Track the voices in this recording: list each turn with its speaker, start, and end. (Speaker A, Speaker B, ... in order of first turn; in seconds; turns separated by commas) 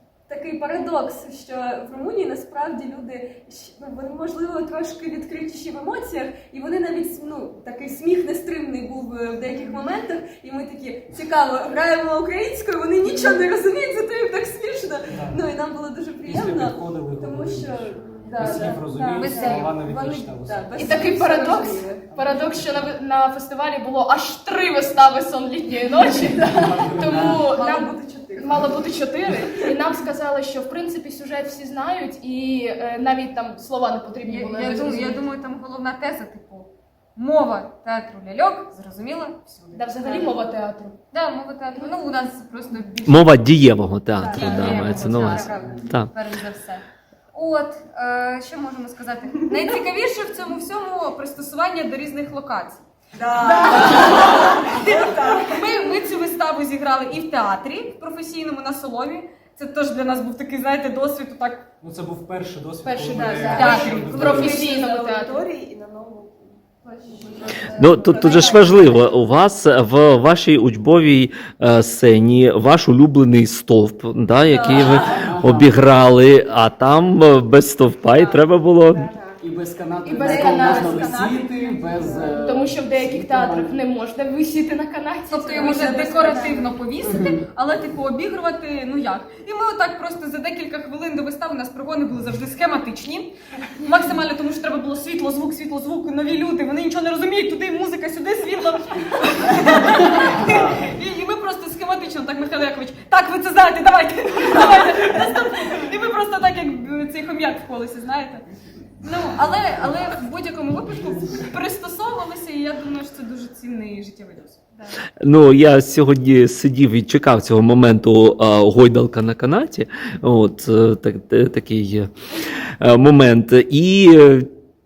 Speaker A: 0.3-22.1, Speaker B: 15.1-15.4, Speaker B: 16.2-20.8, Speaker C: 19.2-19.7, Speaker D: 20.8-35.3, Speaker B: 22.2-22.6, Speaker B: 26.3-27.5, Speaker A: 26.4-28.7, Speaker C: 34.2-40.4, Speaker D: 39.7-41.0, Speaker C: 41.1-43.4, Speaker D: 41.8-42.2, Speaker E: 43.0-46.1, Speaker A: 44.2-45.5, Speaker C: 44.2-52.9, Speaker B: 44.7-45.8, Speaker A: 53.2-55.5, Speaker C: 53.6-61.7, Speaker B: 61.8-64.7, Speaker D: 62.9-65.5, Speaker A: 62.9-69.2, Speaker C: 63.5-64.4, Speaker E: 67.8-79.0, Speaker A: 74.5-75.3, Speaker B: 74.6-75.7, Speaker A: 78.1-79.4, Speaker B: 79.4-83.7, Speaker D: 80.0-81.3, Speaker A: 80.2-82.7, Speaker D: 82.4-86.6, Speaker C: 85.3-108.5, Speaker A: 85.6-86.7, Speaker B: 87.0-87.4, Speaker B: 100.2-100.8, Speaker C: 109.0-114.9, Speaker B: 110.9-111.5, Speaker E: 115.2-122.1, Speaker E: 122.8-124.5